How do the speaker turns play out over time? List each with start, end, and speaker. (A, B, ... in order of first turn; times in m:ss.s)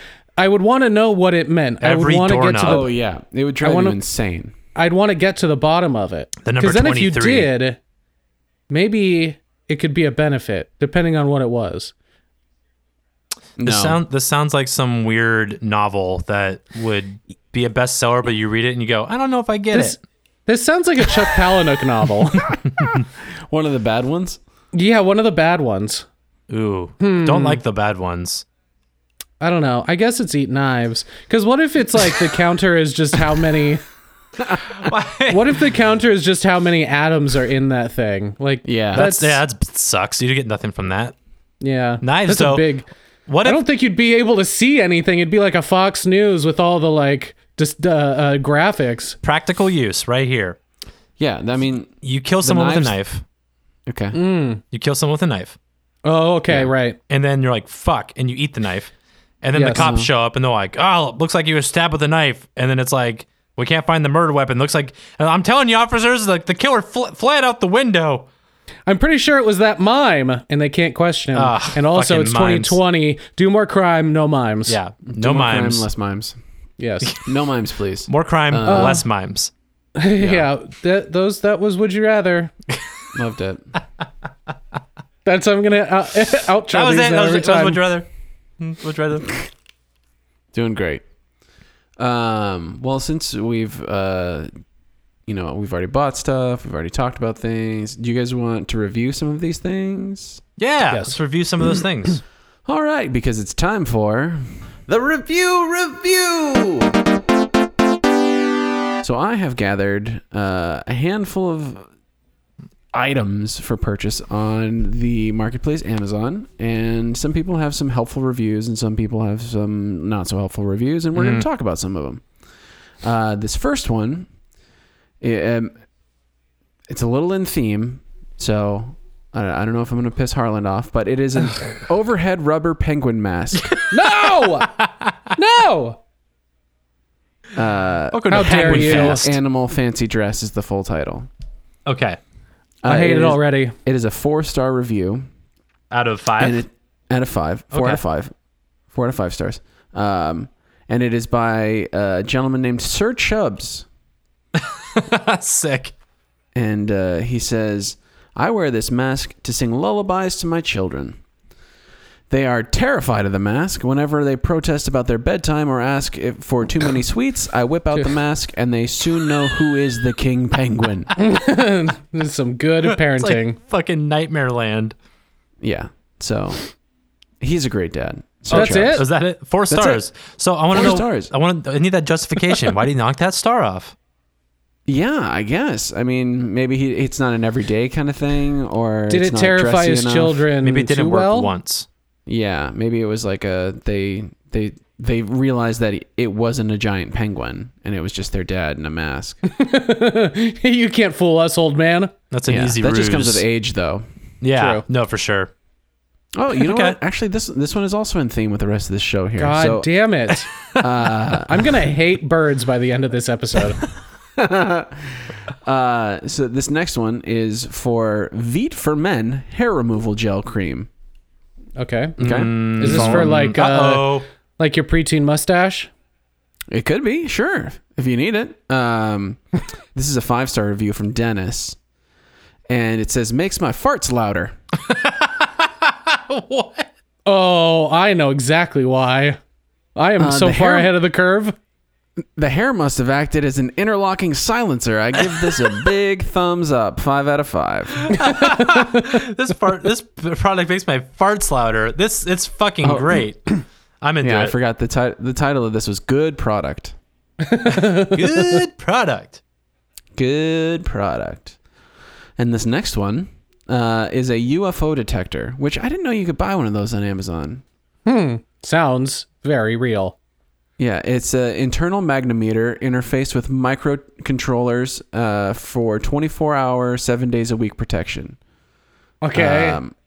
0:00.4-0:02.9 A
0:01.8-0:02.9 B
0:02.6-0:04.5 C
0:03.6-0:04.0 A
0:04.8-0:07.8 A
0:06.4-0:07.5 B
0:08.7-0:11.9 A
0:13.6-0:14.0 C
0:13.6-0:20.0 B
0:19.7-0:22.6 A
0:23.5-0:24.4 C
0:24.7-0:26.1 A
0:26.5-0:28.4 B
0:27.0-0:27.6 A
0:29.4-0:33.8 A
0:34.7-0:35.6 B
0:35.3-0:39.4 A
0:38.6-0:39.0 C
0:39.0-0:41.2 B
0:41.6-0:42.9 A
0:42.0-0:42.7 B
0:43.3-0:43.6 B
0:43.4-0:49.2 A
0:49.2-0:50.6 B
0:51.2-0:51.9 C
0:52.0-0:53.2 B
0:52.4-0:53.0 C
0:53.9-0:54.2 C
0:54.1-0:54.6 A
0:54.7-0:55.6 B
0:56.0-0:57.0 A
0:57.1-1:08.3 B
0:59.6-0:59.9 A
0:59.7-1:00.1 C
1:08.9-1:14.8 A
1:11.3-1:12.8 B
1:14.7-1:15.9 B
1:15.1-1:16.4 C
1:16.8-1:17.2 A
1:17.2-1:19.0 C
1:18.1-1:19.5 B
1:18.6-1:19.0 A
1:20.0-1:22.5 A
1:20.2-1:20.5 C
1:23.1-1:23.7 C
1:25.2-1:27.8 A
1:26.7-1:28.1 B
1:28.6-1:29.4 B
1:30.5-1:31.0 C
1:32.0-1:34.5 C
1:35.3-1:40.4 C
1:40.6-1:42.2 B
1:40.9-1:41.2 A
1:42.7-1:47.0 C
1:49.0-1:51.8 C
1:52.9-2:02.2 C
2:01.2-2:01.5 B
2:03.0-2:04.3 C
2:05.2-2:05.8 C
2:06.9-2:13.8 C
2:13.8-2:15.1 B
2:13.9-2:14.7 A
2:15.4-2:16.0 A
2:17.6-2:21.3 C
2:18.1-2:19.4 B
2:18.3-2:19.3 A
2:21.9-2:22.2 B
2:22.8-2:25.3 C
2:22.9-2:23.8 A
2:25.9-2:26.6 B
2:26.4-2:28.3 C
2:27.7-2:28.0 B
2:28.9-2:33.9 C
2:34.6-2:35.9 B
2:36.6-2:41.2 C
2:42.3-2:51.1 C
2:51.2-2:53.6 A
2:52.8-2:55.0 B
2:55.6-2:56.6 C
2:57.4-2:59.1 C
2:58.5-3:04.0 B
2:58.5-2:59.1 A
2:59.7-3:00.0 C
3:00.7-3:01.3 C
3:04.9-3:10.5 C
3:09.1-3:11.5 A
3:10.6-3:11.9 B
3:12.3-3:19.4 C
3:19.5-3:22.1 A
3:22.3-3:23.4 B
3:22.5-3:24.1 C
3:24.4-3:25.5 B
3:24.6-3:24.8 A
3:26.4-3:29.9 C
3:26.6-3:27.0 B
3:29.4-3:30.5 A
3:30.8-3:31.6 C
3:31.5-3:33.8 A
3:34.4-3:40.9 C
3:41.8-3:42.2 A
3:42.2-3:43.3 C
3:42.2-3:44.3 B
3:42.8-3:45.9 A
3:46.7-3:49.4 C
3:49.9-3:51.8 C
3:52.7-3:54.5 C
3:54.9-3:56.9 B
3:57.3-3:59.4 A
4:00.0-4:01.6 A
4:00.2-4:01.0 C
4:02.4-4:08.1 C
4:08.1-4:13.4 B
4:08.2-4:09.1 A
4:12.8-4:13.3 C
4:14.0-4:14.5 B
4:14.2-4:17.0 C
4:17.4-4:18.6 A
4:17.7-4:19.4 B
4:20.2-4:21.6 C
4:22.4-4:27.6 C
4:28.1-4:30.2 A
4:30.8-4:38.4 C
4:39.2-4:39.8 A
4:39.3-4:39.9 C